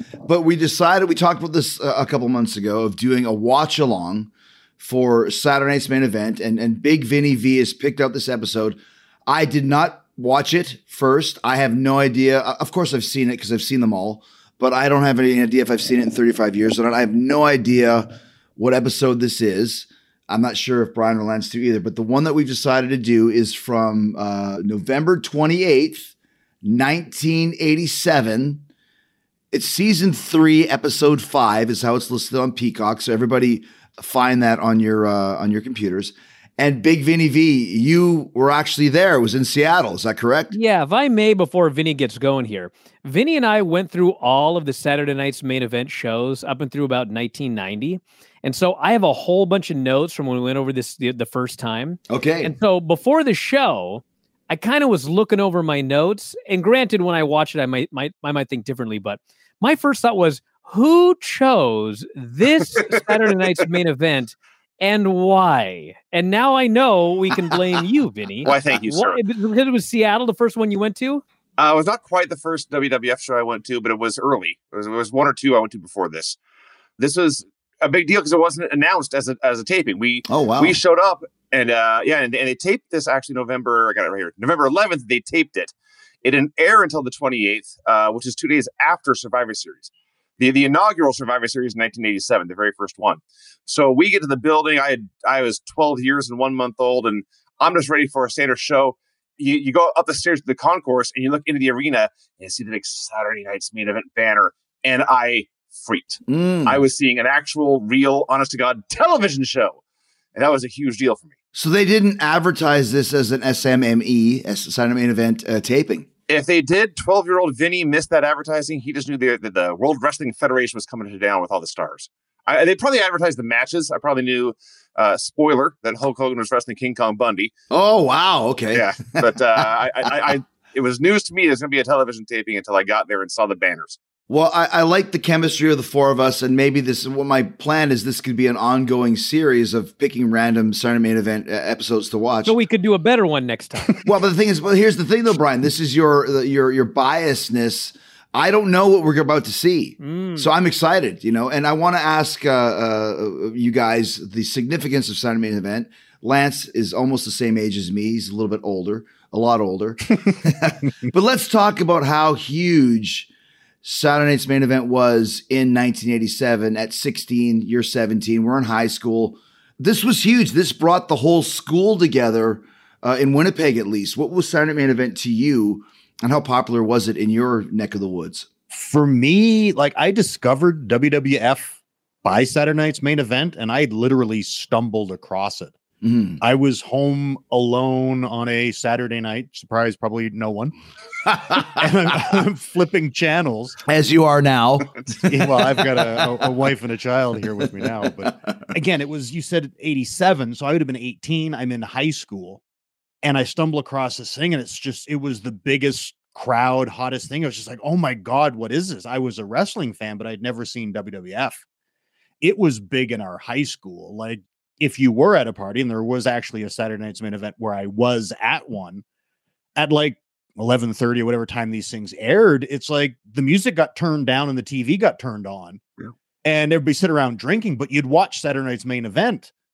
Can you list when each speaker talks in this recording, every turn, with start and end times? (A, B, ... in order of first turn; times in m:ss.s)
0:00.2-0:28.7 A
0:29.5-0:40.6 A
0:40.5-1:11.2 B
0:52.1-0:52.5 A
1:02.9-1:03.2 C
1:08.4-1:09.2 C
1:11.6-1:16.4 C
1:17.0-1:49.8 C
1:20.3-1:20.8 A
1:46.3-1:46.8 A
1:50.4-1:51.3 C
1:51.6-1:56.1 A
1:56.3-2:07.5 C
2:07.7-2:10.4 A
2:08.7-2:14.0 C
2:14.3-2:22.6 A
2:22.4-2:24.0 B
2:24.0-2:43.3 A
2:30.0-2:30.5 B
2:43.8-2:58.5 A
2:58.7-3:05.7 D
3:06.0-3:06.4 A
3:06.4-3:10.7 D
3:11.4-3:11.8 A
3:11.5-3:13.8 D
3:13.9-3:15.6 A
3:15.2-3:22.6 D
3:23.2-3:31.6 D
3:32.4-3:39.0 D
3:39.8-3:45.8 D
3:46.4-3:49.5 D